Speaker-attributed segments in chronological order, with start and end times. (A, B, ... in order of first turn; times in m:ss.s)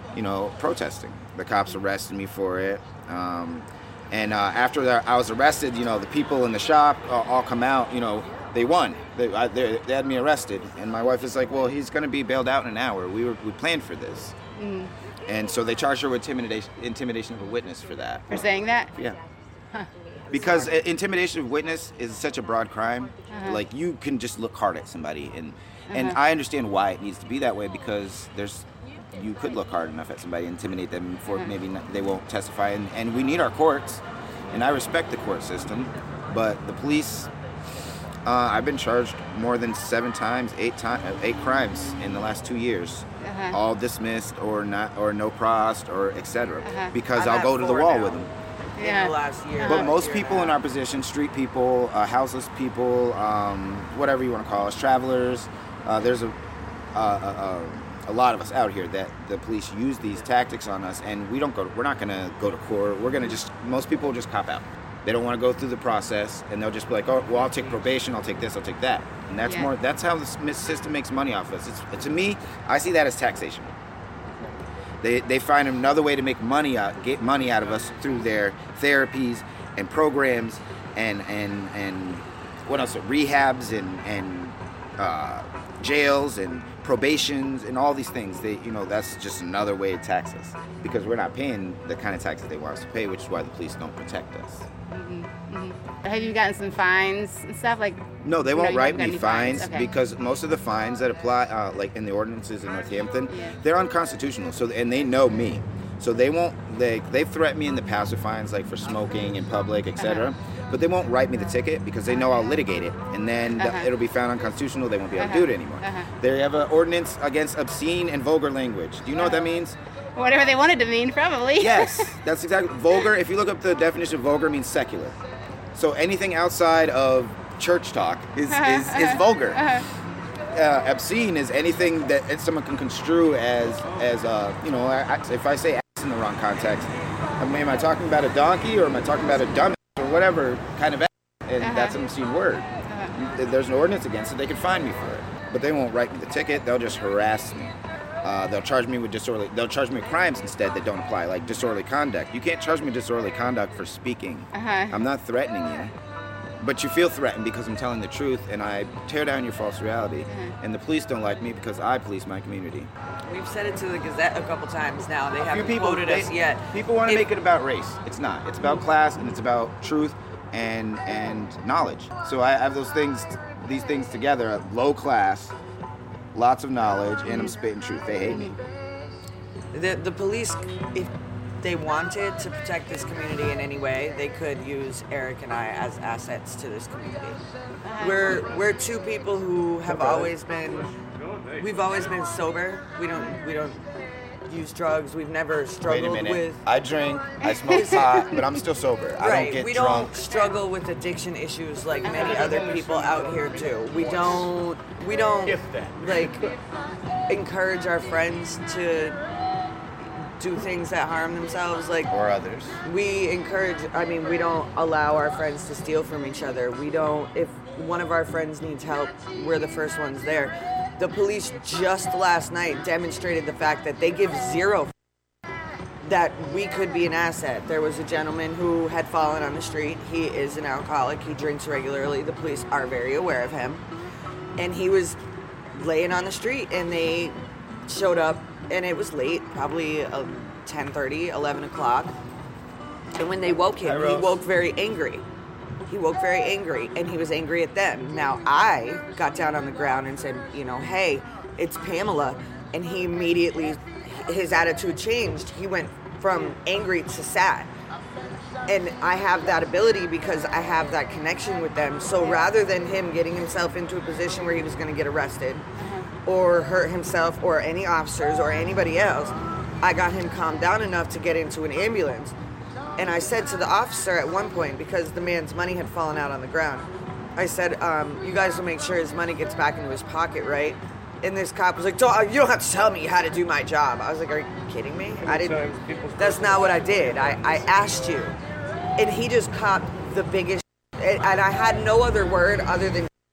0:00.1-0:14.4 A
0:14.5-0:14.9 B
0:15.2-0:18.4 A
0:18.3-0:18.9 B
0:18.9-0:19.2 A
0:20.3-0:37.3 A
0:23.3-0:23.6 B
0:25.9-0:26.2 B
0:38.2-0:48.3 A
0:43.2-0:43.6 B
0:46.6-0:46.9 B
0:47.1-0:50.6 C
0:48.8-0:49.9 B
0:49.6-0:56.4 A
0:56.9-1:13.7 A
1:09.4-1:09.7 B
1:15.0-1:34.6 A
1:34.9-1:39.9 B
1:38.2-1:59.8 A
1:43.3-1:43.6 B
1:50.0-1:50.3 B
1:53.6-1:53.9 B
1:55.2-1:56.1 B
1:59.2-1:59.5 B
2:00.2-2:02.1 B
2:01.6-2:05.2 A
2:05.7-2:09.6 A
2:08.5-2:09.8 B
2:10.5-2:35.9 A
2:21.6-2:22.0 B
2:22.9-2:23.1 B
2:34.5-2:35.0 B
2:36.6-2:42.9 A
2:40.3-2:40.6 B
2:43.2-2:47.2 C
2:45.4-2:55.5 A
2:56.3-2:58.6 A
2:57.2-2:57.6 B
2:58.3-2:58.5 B
2:59.7-3:07.4 C
3:07.8-3:08.4 B
3:08.0-3:10.9 C
3:09.8-3:10.3 A
3:11.6-3:13.8 C
3:14.4-3:16.6 C
3:15.8-3:20.1 A
3:17.4-3:18.4 B
3:17.7-3:18.1 C
3:19.2-3:26.5 C
3:22.1-3:22.4 B
3:22.2-3:22.8 A
3:23.9-3:24.4 A
3:25.5-3:26.0 A
3:27.3-3:29.2 C
3:30.4-3:32.1 C
3:32.1-3:32.8 A
3:32.8-3:44.9 C
3:46.0-3:53.8 C
3:54.6-3:55.2 C
3:55.7-4:02.2 C
4:03.2-4:05.2 C
4:03.8-4:04.4 A
4:05.9-4:17.7 C
4:18.6-4:25.7 C
4:25.8-4:26.1 B
4:26.2-4:32.3 C
4:33.0-4:48.4 C
4:49.0-4:53.1 C